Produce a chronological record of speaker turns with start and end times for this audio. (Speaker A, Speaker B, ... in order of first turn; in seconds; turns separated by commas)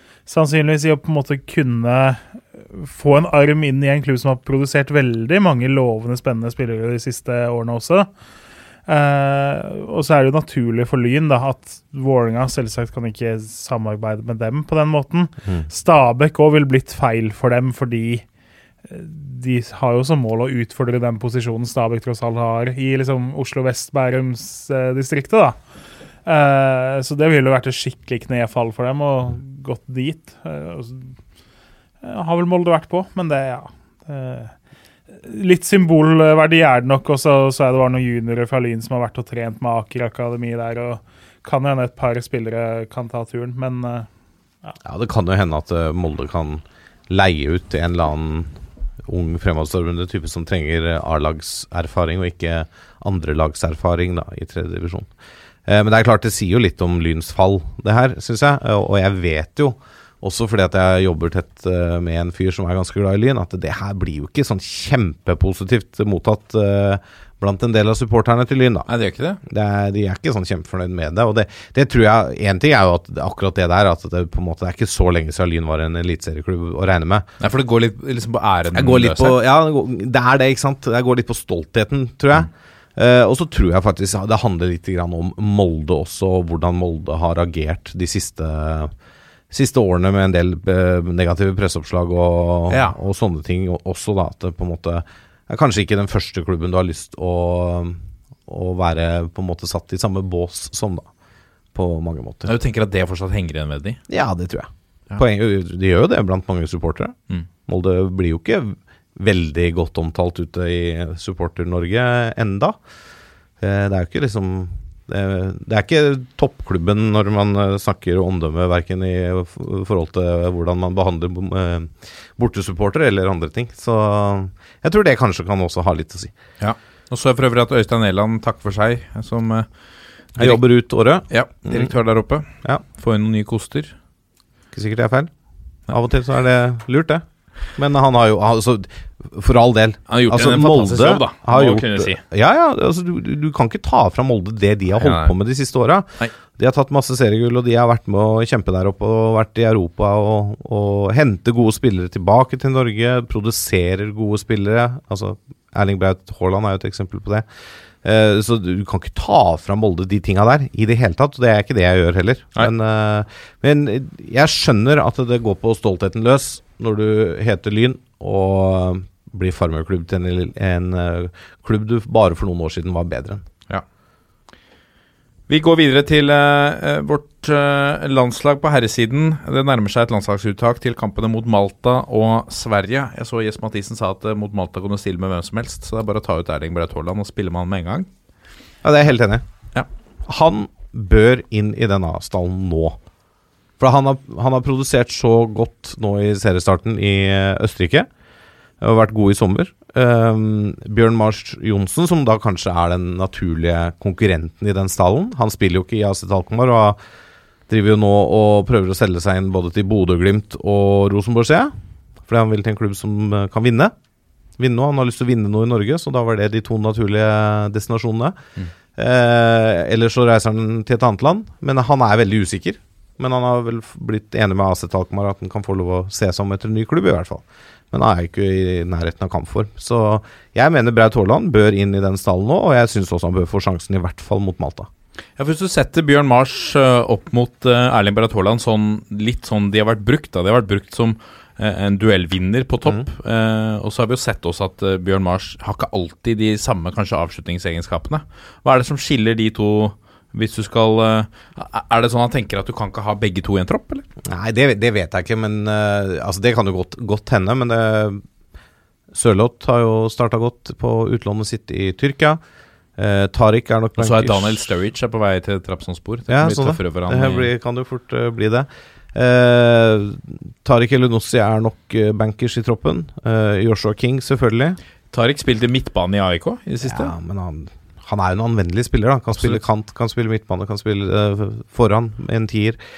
Speaker A: 0.3-2.2, Speaker A: 2.7-8.1, Speaker A: 8.9-18.2, Speaker A: 18.9-25.6, Speaker A: 26.2-31.1, Speaker A: 32.0-34.5, Speaker A: 35.2-44.1, Speaker B: 44.8-48.5, Speaker B: 49.1-55.1, Speaker B: 55.7-68.9, Speaker C: 68.9-69.4, Speaker B: 69.5-77.3, Speaker C: 77.4-79.4, Speaker B: 78.8-88.9, Speaker B: 89.5-101.1, Speaker C: 92.7-93.0, Speaker B: 101.7-102.5, Speaker C: 102.5-104.0, Speaker B: 104.1-107.2, Speaker B: 107.7-112.8, Speaker B: 113.6-126.3, Speaker C: 126.6-129.7, Speaker C: 130.4-130.6, Speaker B: 130.4-131.9, Speaker C: 131.3-133.9, Speaker B: 134.7-135.3, Speaker B: 135.9-137.2, Speaker B: 137.8-157.5, Speaker C: 140.1-142.2, Speaker C: 145.0-145.3, Speaker B: 158.0-173.4, Speaker C: 175.5-188.1, Speaker B: 188.8-189.4, Speaker B: 190.3-193.0, Speaker B: 193.8-198.1, Speaker B: 198.8-207.0, Speaker B: 207.7-211.7, Speaker B: 212.3-213.9, Speaker B: 214.6-218.4, Speaker B: 219.0-234.9, Speaker C: 235.4-254.1, Speaker B: 254.2-258.2, Speaker B: 259.1-262.4, Speaker B: 263.0-264.6, Speaker C: 264.0-267.5, Speaker B: 266.3-274.8, Speaker C: 275.1-277.1, Speaker B: 276.8-282.8